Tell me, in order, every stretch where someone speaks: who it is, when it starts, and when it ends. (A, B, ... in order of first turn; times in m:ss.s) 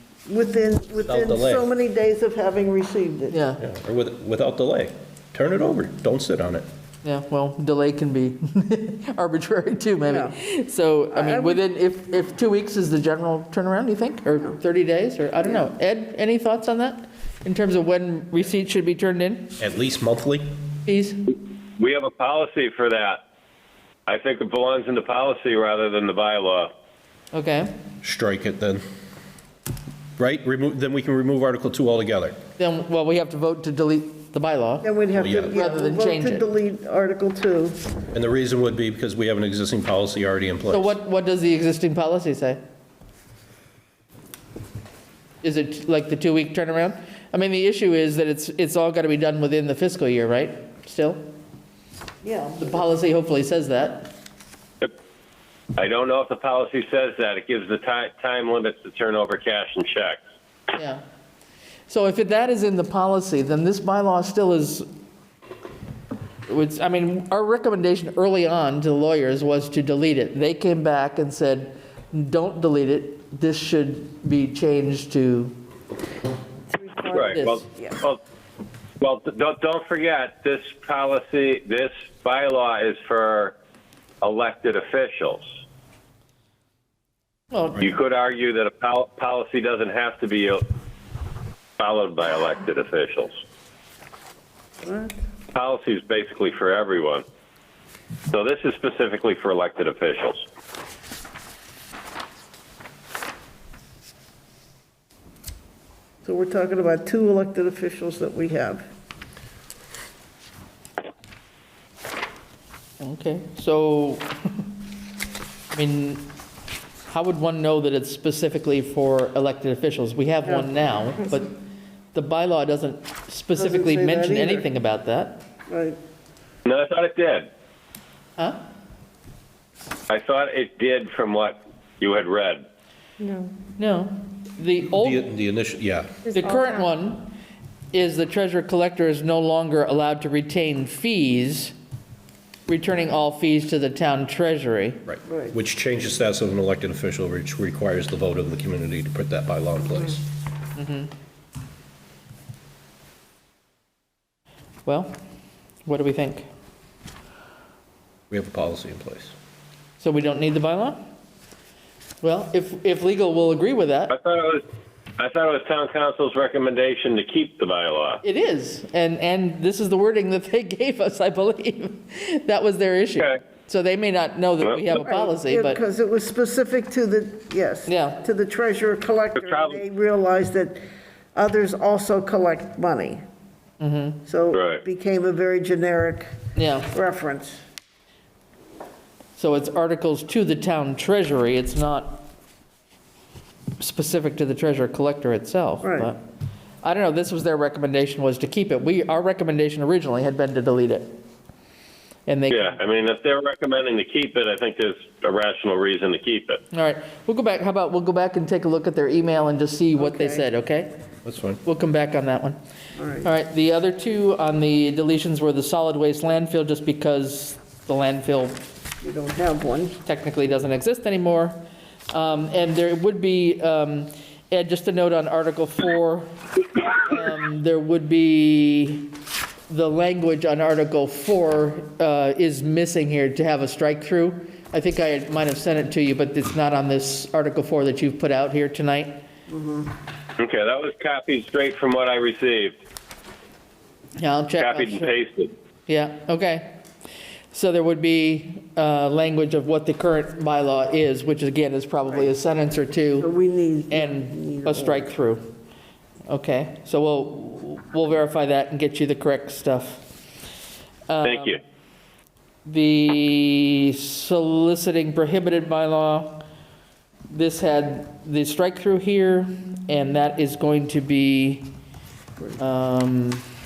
0:00.3-0:03.3 A
0:01.0-0:01.7 B
0:03.3-0:03.6 C
0:03.6-0:06.6 B
0:07.0-0:19.6 C
0:10.0-0:10.4 A
0:11.1-0:11.6 A
0:19.6-0:20.5 B
0:20.8-0:21.2 C
0:21.8-0:23.2 D
0:24.1-0:26.7 D
0:27.3-0:27.7 C
0:28.0-0:28.8 B
0:30.2-0:32.4 B
0:32.6-0:34.9 C
0:34.8-0:37.8 A
0:35.1-0:35.5 B
0:35.5-0:36.4 C
0:38.1-0:40.9 B
0:40.7-0:42.6 C
0:45.4-0:51.2 C
0:52.2-0:52.9 A
0:52.6-0:54.1 C
0:55.8-1:00.2 D
1:00.7-1:01.0 C
1:01.9-1:04.8 C
1:06.5-1:15.6 C
1:16.7-1:18.0 A
1:17.1-1:18.2 D
1:17.3-1:17.6 C
1:19.0-1:23.5 D
1:24.2-1:25.5 D
1:27.5-1:27.8 C
1:27.8-1:30.6 D
1:31.8-1:33.3 D
1:34.8-1:35.2 A
1:35.5-1:37.2 D
1:38.3-1:40.4 D
1:46.2-1:48.8 A
1:53.0-1:54.7 C
1:55.7-1:56.3 C
1:57.1-2:01.6 C
2:00.4-2:01.3 A
2:02.1-2:05.4 C
2:03.5-2:04.7 A
2:05.7-2:06.0 A
2:06.6-2:07.5 D
2:10.1-2:12.6 D
2:13.2-2:13.5 A
2:13.8-2:15.3 C
2:14.9-2:16.3 B
2:16.3-2:17.3 C
2:17.9-2:21.7 C
2:22.7-2:25.0 C
2:25.1-2:30.2 B
2:25.3-2:25.6 A
2:30.8-2:31.1 C
2:34.8-2:35.2 C
2:35.8-2:36.5 C
2:38.3-2:39.3 B
2:40.0-2:41.0 C
2:42.2-2:44.1 C
2:44.1-2:44.6 D
2:45.2-2:48.2 D
2:48.2-2:55.8 C
2:54.6-2:55.0 D
2:55.0-3:00.8 A
2:57.8-2:58.2 C
2:59.4-2:59.8 D
3:01.3-3:03.2 A
3:03.8-3:04.2 C
3:04.2-3:06.3 A
3:04.5-3:04.8 D
3:06.6-3:06.9 C
3:06.9-3:07.6 A
3:09.4-3:12.3 C
3:13.8-3:16.2 C
3:15.8-3:16.1 A
3:16.8-3:21.1 C
3:22.3-3:22.8 C
3:22.5-3:26.6 D
3:26.7-3:30.9 C
3:30.0-3:30.4 A
3:31.2-3:31.6 B
3:31.6-3:32.6 C
3:33.0-3:33.3 A
3:33.2-3:38.6 C
3:39.0-3:40.0 A
3:40.0-3:41.6 C
3:42.1-3:46.3 C
3:46.9-3:49.1 C
3:49.7-3:59.2 C
3:59.5-3:59.9 A
4:00.4-4:02.8 D
4:04.2-4:05.1 C
4:04.6-4:05.5 D
4:05.9-4:06.8 C
4:07.5-4:13.3 C
4:13.2-4:15.1 A
4:13.9-4:15.5 C
4:16.3-4:20.1 C
4:21.1-4:21.6 C
4:21.2-4:21.6 D
4:22.6-4:26.4 C
4:27.3-4:31.7 C
4:32.6-4:33.4 C